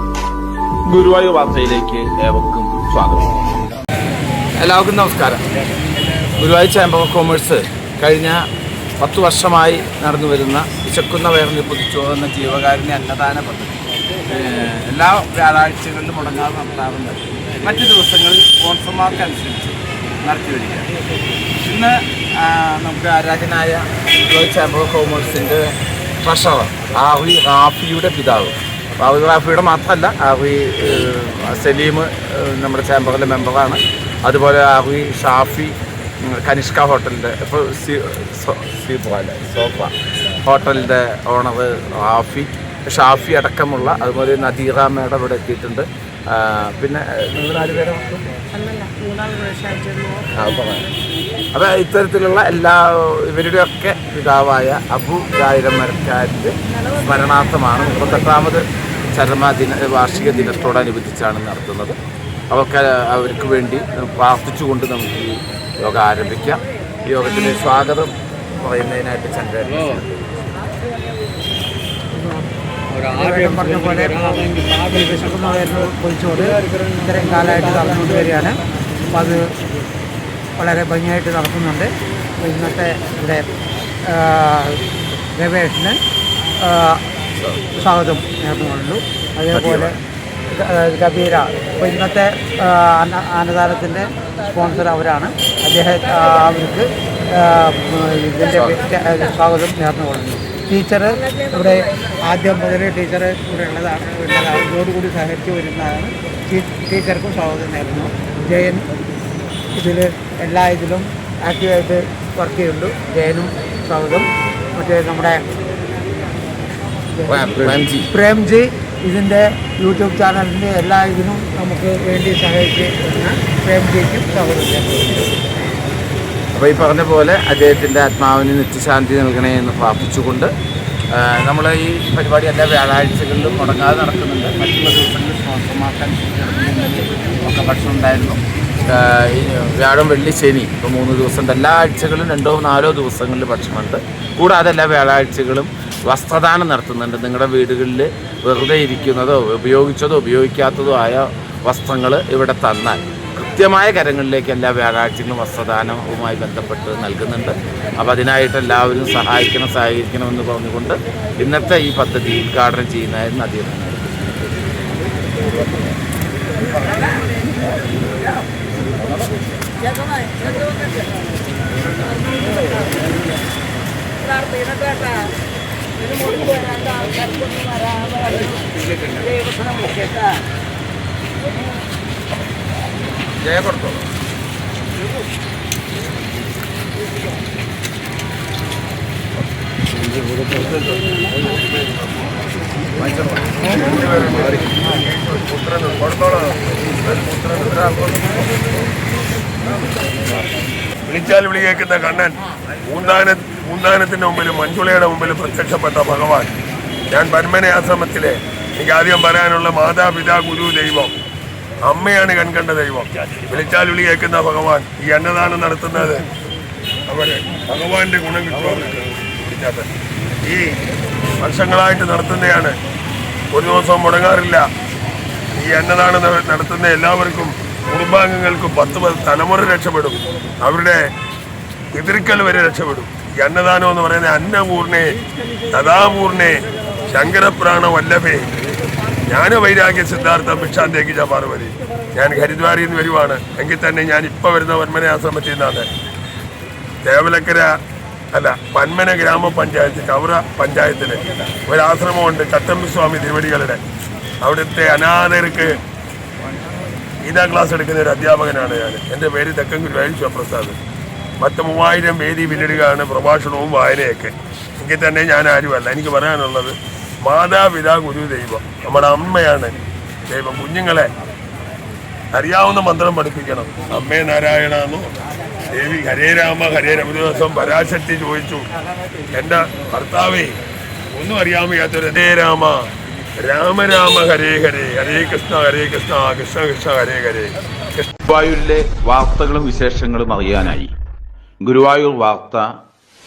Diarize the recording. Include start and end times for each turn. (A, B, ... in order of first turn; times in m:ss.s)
0:00.8-0:03.3 A
0:04.6-0:05.4 A
0:06.4-0:08.5 A
0:09.0-0:20.9 A
0:21.6-0:48.2 A
0:48.5-0:50.2 B
0:50.3-0:50.9 A
0:51.5-1:02.0 A
1:02.5-1:10.1 A
1:12.1-1:12.5 B
1:13.0-1:19.5 B
1:20.6-1:23.5 B
1:24.0-1:26.0 B
1:26.6-1:27.0 B
1:27.4-1:27.6 A
1:27.7-1:30.0 B
1:29.5-1:29.9 A
1:30.5-1:48.9 B
1:38.4-1:38.8 A
1:49.7-1:55.4 B
1:57.2-2:05.4 B
1:57.2-1:58.1 A
2:06.5-2:10.5 A
2:11.1-2:44.5 A
2:50.1-2:50.5 A
2:56.2-3:00.3 A
3:03.4-3:04.1 A
3:13.0-3:13.6 A
3:13.6-3:18.4 C
3:21.1-3:26.5 C
3:27.1-3:31.2 C
3:31.9-3:36.3 C
3:37.1-3:39.9 C
3:40.4-3:40.8 C
3:41.4-3:42.8 C
3:43.5-3:44.7 C
3:45.5-3:51.1 C
3:51.9-3:55.2 C
3:55.7-3:58.5 C
3:59.2-4:05.9 C
4:07.0-4:07.8 C
4:08.3-4:13.8 C
4:14.4-4:15.8 C
4:17.2-4:20.8 C
4:21.4-4:29.7 C
4:30.3-4:31.1 C
4:32.3-4:35.1 C
4:35.7-4:38.7 C
4:39.3-4:40.6 C
4:41.2-4:42.9 C
4:43.4-4:48.1 C
4:48.2-4:50.9 A
4:51.6-4:52.7 A